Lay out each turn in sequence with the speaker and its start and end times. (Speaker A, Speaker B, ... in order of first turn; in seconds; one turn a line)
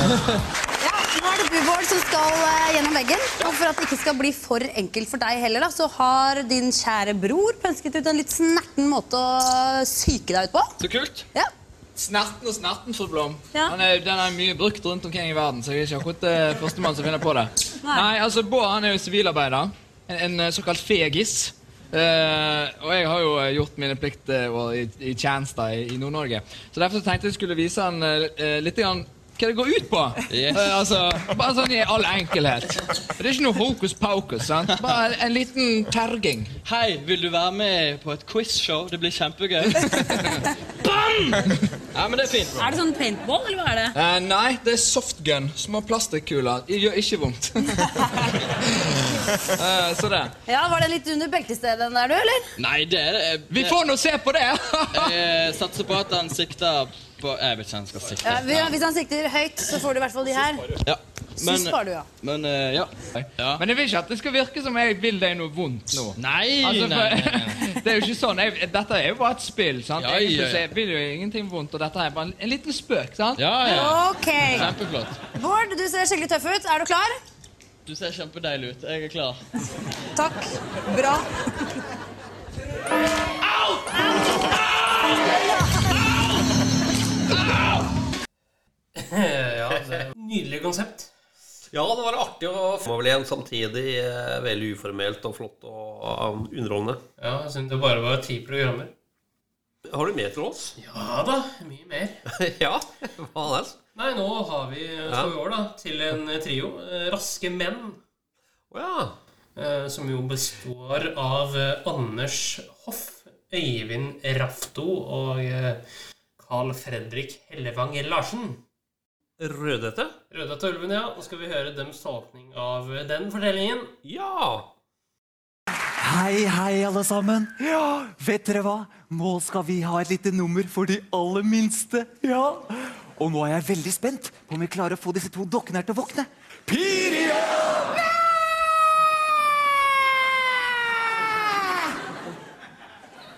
Speaker A: 0.8-10.7
Speaker B: 10.8-11.2
Speaker B: 11.9-36.5
Speaker C: 30.3-30.7
Speaker C: 36.6-39.9
Speaker B: 39.7-40.4
Speaker C: 40.8-42.6
Speaker A: 42.5-43.9
Speaker B: 43.9-50.3
Speaker A: 50.5-52.5
Speaker C: 52.5-53.8
Speaker B: 53.5-55.2
Speaker C: 55.0-58.8
Speaker A: 58.2-60.7
Speaker C: 60.8-63.6
Speaker A: 61.4-62.1
Speaker B: 63.1-74.0
Speaker C: 66.2-67.6
Speaker C: 70.0-70.6
Speaker C: 73.3-75.2
Speaker A: 73.8-74.7
Speaker A: 75.3-77.2
Speaker C: 77.8-79.4
Speaker A: 80.2-81.2
Speaker D: 87.4-87.8
Speaker E: 89.0-91.1
Speaker D: 91.7-97.0
Speaker E: 97.2-98.9
Speaker D: 99.8-100.8
Speaker E: 100.8-102.2
Speaker D: 102.3-103.8
Speaker E: 103.9-108.0
Speaker D: 105.1-105.3
Speaker D: 108.7-109.2
Speaker E: 109.5-115.8
Speaker E: 116.4-118.6
Speaker D: 119.4-120.1
Speaker E: 120.3-123.9
Speaker D: 124.0-124.7
Speaker F: 126.0-137.9